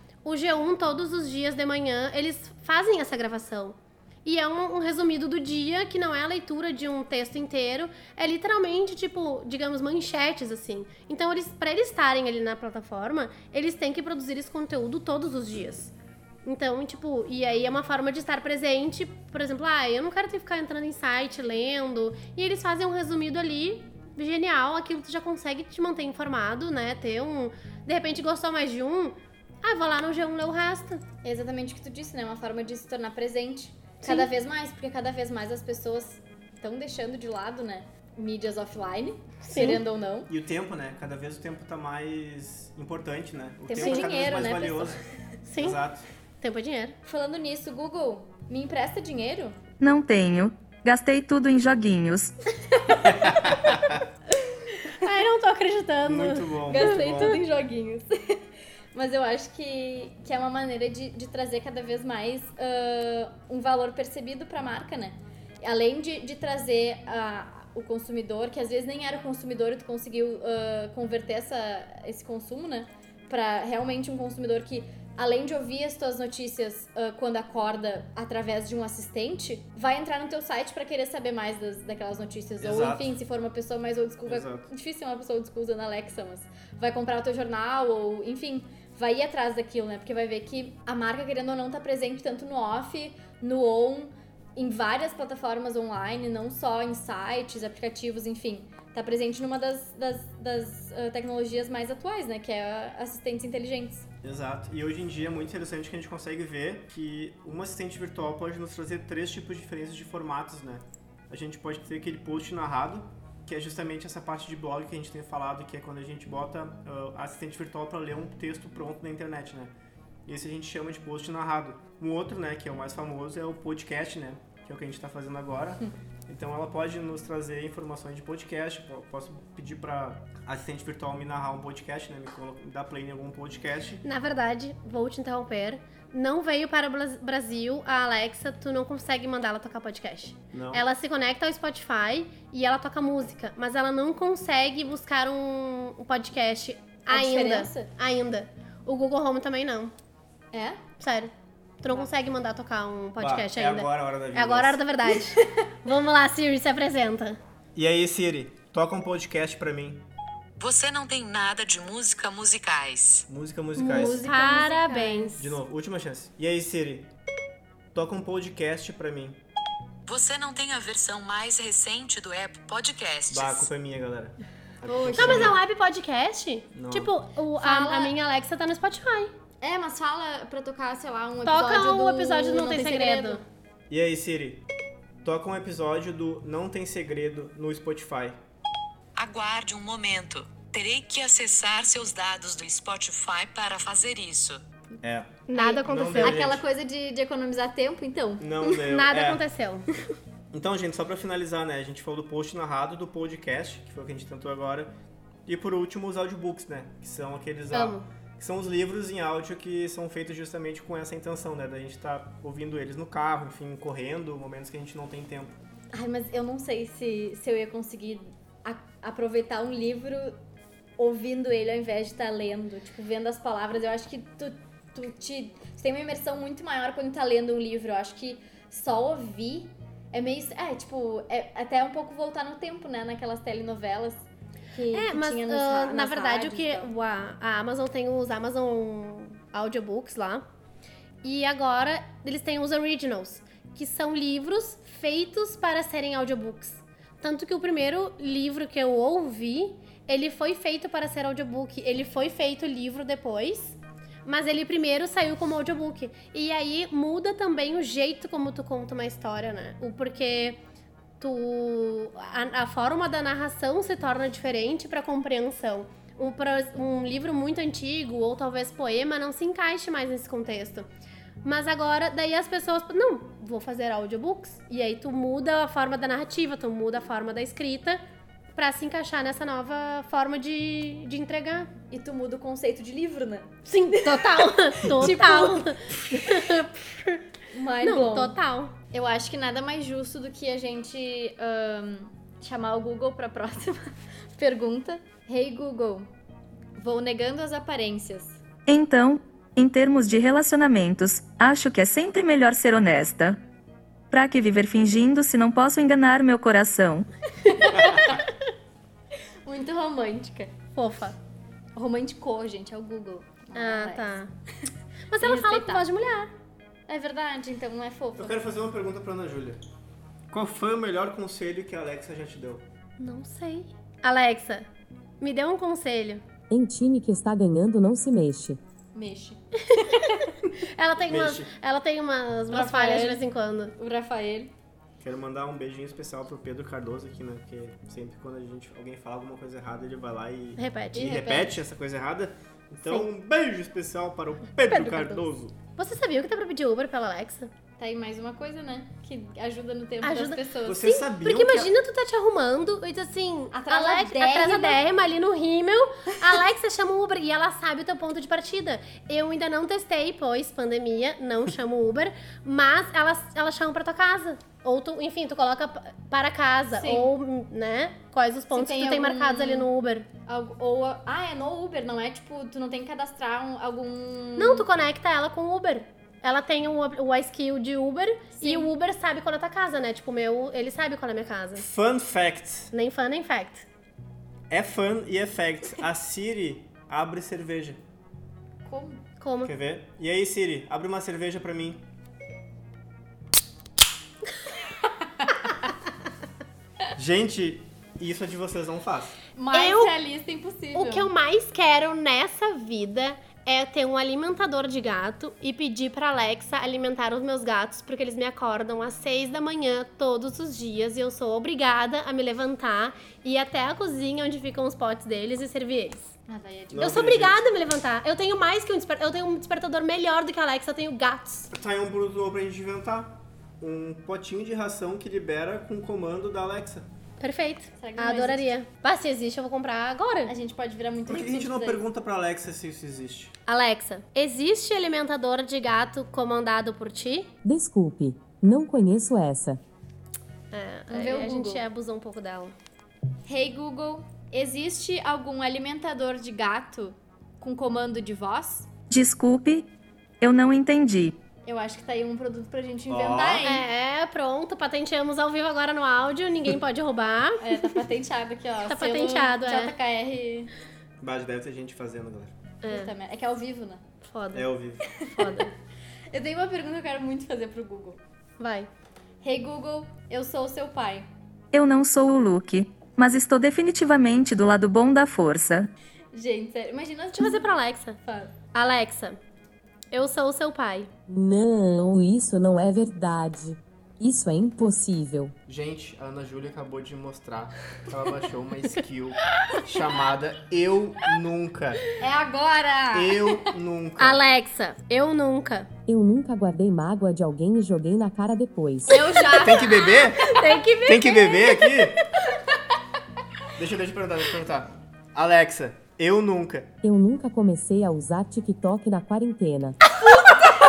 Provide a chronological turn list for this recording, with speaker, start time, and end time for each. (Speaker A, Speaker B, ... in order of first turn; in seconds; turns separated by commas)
Speaker A: 0.2-15.9, Speaker A: 16.4-31.0, Speaker B: 31.2-40.3, Speaker A: 34.0-34.3, Speaker A: 39.4-39.8, Speaker C: 40.3-45.0, Speaker B: 43.7-45.0, Speaker A: 43.8-44.1, Speaker A: 45.5-45.8, Speaker C: 45.6-46.0, Speaker A: 46.4-47.0, Speaker B: 47.0-49.6, Speaker D: 49.8-52.3, Speaker B: 52.8-53.6, Speaker C: 53.0-54.0, Speaker A: 54.9-57.3, Speaker C: 56.1-57.4, Speaker B: 56.7-104.1, Speaker C: 82.6-83.1, Speaker C: 84.3-84.7, Speaker C: 104.2-119.7, Speaker C: 120.3-134.0, Speaker A: 134.0-149.9, Speaker C: 140.5-140.8, Speaker B: 147.1-147.9, Speaker B: 150.5-150.8, Speaker A: 151.0-157.4, Speaker C: 153.2-154.8, Speaker C: 157.8-160.1, Speaker E: 160.6-163.3, Speaker C: 163.3-164.2, Speaker A: 163.8-165.6, Speaker B: 163.8-165.4, Speaker C: 165.4-167.1, Speaker C: 167.9-169.4, Speaker E: 170.1-173.7, Speaker C: 173.3-175.6, Speaker B: 174.8-175.6, Speaker A: 175.2-179.3, Speaker C: 176.8-177.1, Speaker B: 177.6-178.1, Speaker B: 179.6-183.4, Speaker A: 181.4-183.4, Speaker C: 183.9-184.6, Speaker C: 185.2-188.4, Speaker E: 189.2-194.6, Speaker C: 195.0-195.3, Speaker A: 195.5-196.5, Speaker B: 195.5-198.8, Speaker C: 195.8-196.6, Speaker C: 198.4-199.4, Speaker A: 198.7-200.0, Speaker C: 200.5-204.9, Speaker C: 205.5-215.6, Speaker A: 207.7-208.1, Speaker B: 215.9-220.4, Speaker B: 221.0-236.9, Speaker A: 234.9-240.4, Speaker A: 241.2-260.6, Speaker A: 261.2-270.9, Speaker A: 271.4-278.0, Speaker A: 278.6-281.7, Speaker B: 281.9-286.5, Speaker A: 283.7-287.2, Speaker B: 287.5-288.4, Speaker A: 287.8-288.7, Speaker B: 288.9-296.1, Speaker B: 296.8-298.4, Speaker D: 298.7-303.4, Speaker D: 304.1-307.1, Speaker B: 307.4-308.3, Speaker C: 307.8-308.2, Speaker B: 309.4-310.6, Speaker A: 310.8-311.2, Speaker B: 311.8-314.2, Speaker A: 313.6-314.3, Speaker A: 315.1-316.3, Speaker B: 315.2-315.9, Speaker B: 316.9-318.4, Speaker C: 318.2-319.6, Speaker C: 320.3-322.6, Speaker A: 323.0-324.7, Speaker A: 325.2-326.2, Speaker F: 326.5-328.6, Speaker B: 328.9-330.3, Speaker A: 329.6-333.7, Speaker C: 331.1-331.5, Speaker B: 332.5-333.2, Speaker B: 333.8-334.5, Speaker C: 335.0-345.6, Speaker A: 340.6-341.1, Speaker B: 340.9-341.6, Speaker A: 344.7-347.5, Speaker B: 347.8-350.9, Speaker A: 350.0-370.1, Speaker C: 350.6-351.7, Speaker B: 353.5-354.9, Speaker B: 366.7-367.1, Speaker B: 368.5-369.7, Speaker B: 370.3-374.7, Speaker A: 374.4-381.7, Speaker B: 378.4-378.7, Speaker C: 381.6-382.7, Speaker A: 382.7-383.7, Speaker C: 384.5-387.8, Speaker B: 388.6-389.0, Speaker A: 389.2-389.5, Speaker C: 389.4-391.9, Speaker B: 395.2-395.5, Speaker C: 397.0-399.2, Speaker B: 399.4-401.1, Speaker A: 399.5-399.9, Speaker A: 400.8-416.1, Speaker B: 416.3-417.1, Speaker C: 416.7-417.4, Speaker A: 416.8-421.5, Speaker C: 421.5-426.9, Speaker A: 427.2-430.3, Speaker B: 427.8-428.5, Speaker B: 430.3-431.8, Speaker C: 431.1-433.3, Speaker A: 433.5-437.3, Speaker F: 437.4-439.6, Speaker A: 440.5-442.6, Speaker B: 440.9-441.6, Speaker B: 443.3-448.7, Speaker D: 448.9-449.7, Speaker D: 450.2-451.2, Speaker B: 451.4-453.7, Speaker C: 452.9-453.4, Speaker A: 453.4-457.8, Speaker B: 457.4-460.5, Speaker A: 458.7-459.8, Speaker C: 461.0-462.3, Speaker A: 462.6-462.9, Speaker B: 462.6-463.8, Speaker A: 464.0-464.5, Speaker C: 464.3-464.8, Speaker B: 464.8-465.5, Speaker A: 465.1-465.5, Speaker B: 466.1-468.0, Speaker A: 468.4-468.7, Speaker B: 469.2-471.1, Speaker D: 471.5-475.7, Speaker B: 476.1-478.3, Speaker A: 477.2-478.0, Speaker A: 478.5-479.2, Speaker A: 479.9-480.9, Speaker F: 481.1-485.4, Speaker C: 485.5-491.8, Speaker B: 492.0-493.5, Speaker C: 492.9-494.2, Speaker A: 494.0-495.7, Speaker F: 495.9-499.1, Speaker B: 498.9-500.1, Speaker A: 498.9-501.8, Speaker C: 499.4-502.0, Speaker C: 503.6-506.7, Speaker F: 506.8-509.8